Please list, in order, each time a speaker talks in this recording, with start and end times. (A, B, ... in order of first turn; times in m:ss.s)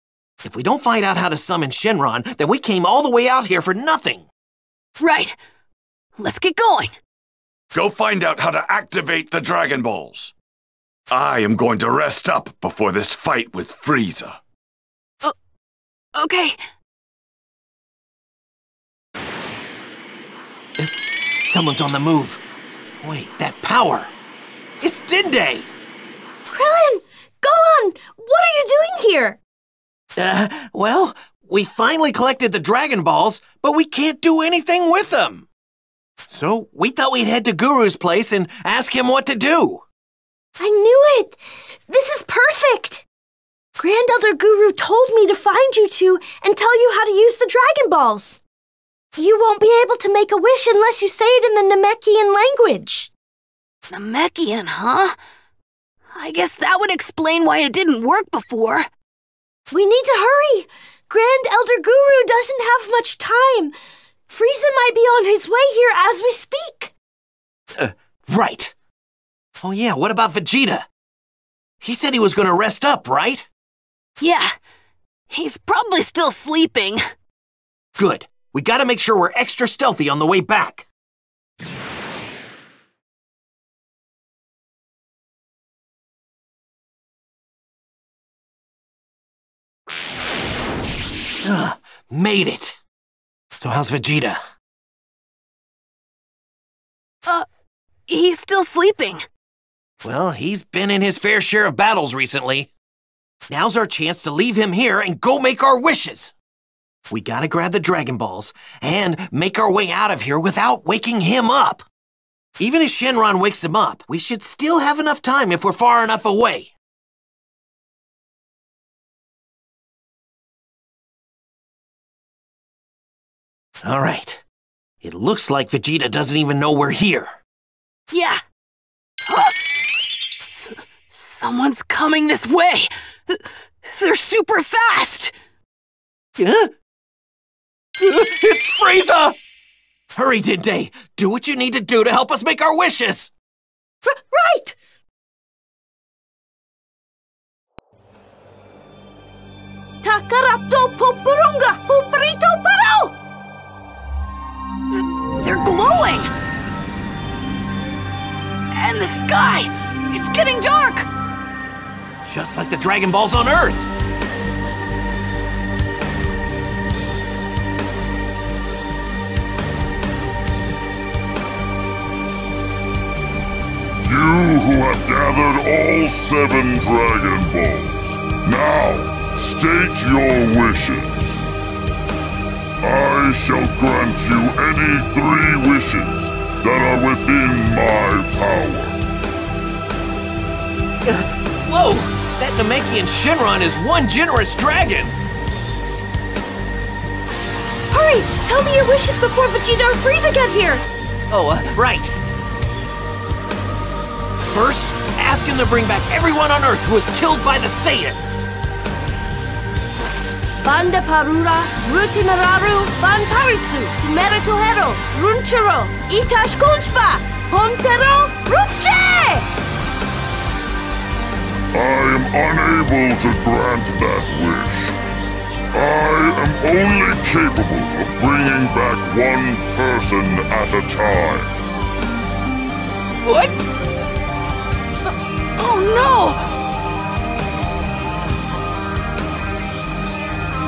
0:00.4-0:04.3 A
0:05.0-0:05.3 B
0:06.2-0:06.9 B
0:07.7-0:10.3 C
0:11.1-0:14.4 C
0:16.1-0:16.6 B
0:20.8-0:22.4 A
0:23.0-0:24.1 A
0:24.8-0:25.7 A
0:26.5-0:29.4 D
0:30.2-0:35.5 A
0:36.2-0:39.8 A
0:40.6-0:41.4 D
0:41.9-0:43.0 D
0:43.8-0:48.4 D
0:49.2-0:53.1 D
0:53.9-0:55.1 B
0:56.1-0:58.8 B
0:59.7-1:03.7 D
1:04.3-1:06.9 D
1:07.8-1:08.7 A
1:09.6-1:10.9 A
1:11.8-1:13.5 A
1:14.2-1:14.5 B
1:15.3-1:17.0 B
1:18.0-1:20.9 A
1:31.4-1:32.8 A
1:33.6-1:34.4 A
1:38.1-1:39.2 B
1:40.0-1:42.7 A
1:43.5-1:46.3 A
1:47.1-1:51.8 A
1:52.6-1:56.7 A
2:03.8-2:04.4 A
2:05.0-2:07.4 A
2:08.1-2:08.4 B
2:09.3-2:09.6 B
2:10.5-2:15.3 B
2:16.4-2:16.7 A
2:18.0-2:19.4 A
2:20.1-2:23.3 A
2:24.0-2:24.8 D
2:30.0-2:33.2 D
2:34.9-2:36.3 B
2:38.7-2:41.1 B
2:42.2-2:43.9 A
2:54.0-3:01.4 E
3:02.8-3:09.0 E
3:11.0-3:15.2 A
3:17.9-3:20.8 D
3:21.3-3:22.2 A
3:24.5-3:28.4 A
3:30.6-3:39.5 D
3:41.7-3:45.0 E
3:45.7-3:51.5 E
3:55.6-3:56.4 B